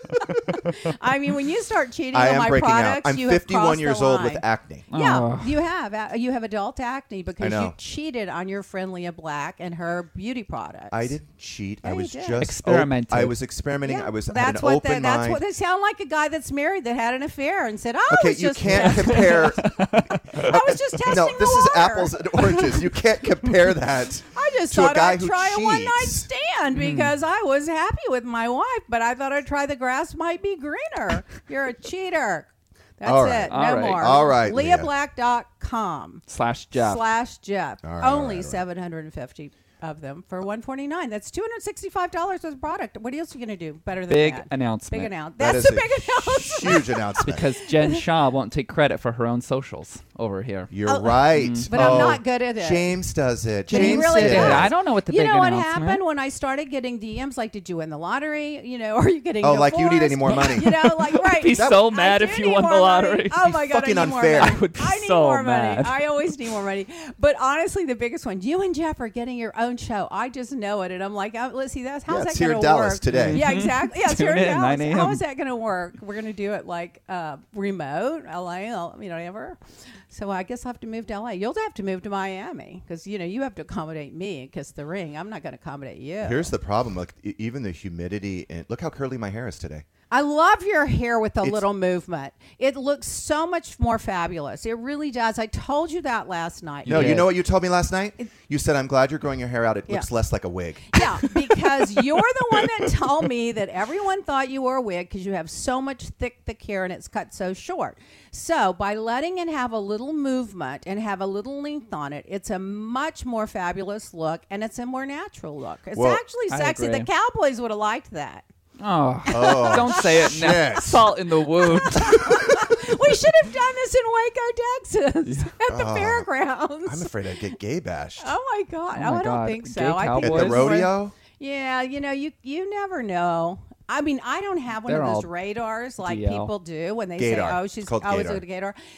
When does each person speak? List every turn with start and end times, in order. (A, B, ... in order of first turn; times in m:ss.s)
0:00.5-0:11.2 A
0:02.1-0:04.9 B
0:04.9-0:05.6 C
0:07.4-0:07.8 B
0:10.9-0:15.4 B
0:11.8-0:12.4 A
0:12.4-0:13.4 C
0:13.8-0:19.6 A
0:18.1-0:26.3 B
0:18.9-0:20.5 C
0:20.3-0:22.8 A
0:24.3-0:48.0 A
0:26.7-0:27.1 C
0:33.0-0:34.9 B
0:33.5-0:34.2 C
0:36.3-0:37.0 C
0:37.8-0:38.6 B
0:44.1-0:45.1 C
0:45.4-0:47.5 B
0:47.2-0:50.7 C
0:50.7-0:54.7 B
0:50.9-0:53.0 A
0:51.3-0:52.1 C
0:53.7-1:19.6 A
0:53.7-0:56.0 C
0:59.4-1:00.9 B
1:01.2-1:03.5 C
1:01.5-1:01.9 B
1:03.5-1:04.6 B
1:04.4-1:06.1 C
1:12.1-1:13.4 B
1:13.1-1:15.2 C
1:20.1-1:26.5 A
1:26.2-1:29.9 B
1:30.1-1:37.3 A
1:36.9-1:37.3 C
1:36.9-1:41.3 B
1:40.9-1:58.5 A
1:55.9-1:56.2 B
1:56.5-1:57.1 C
1:58.8-2:02.5 C
1:59.3-2:00.8 A
1:59.3-2:01.1 B
2:01.5-2:07.1 A
2:05.2-2:05.5 C
2:05.7-2:06.3 B
2:06.8-2:08.3 B
2:08.2-2:18.8 A
2:08.9-2:10.8 C
2:10.2-2:11.1 B
2:14.9-2:15.3 C
2:16.0-2:16.5 C
2:17.2-2:18.4 B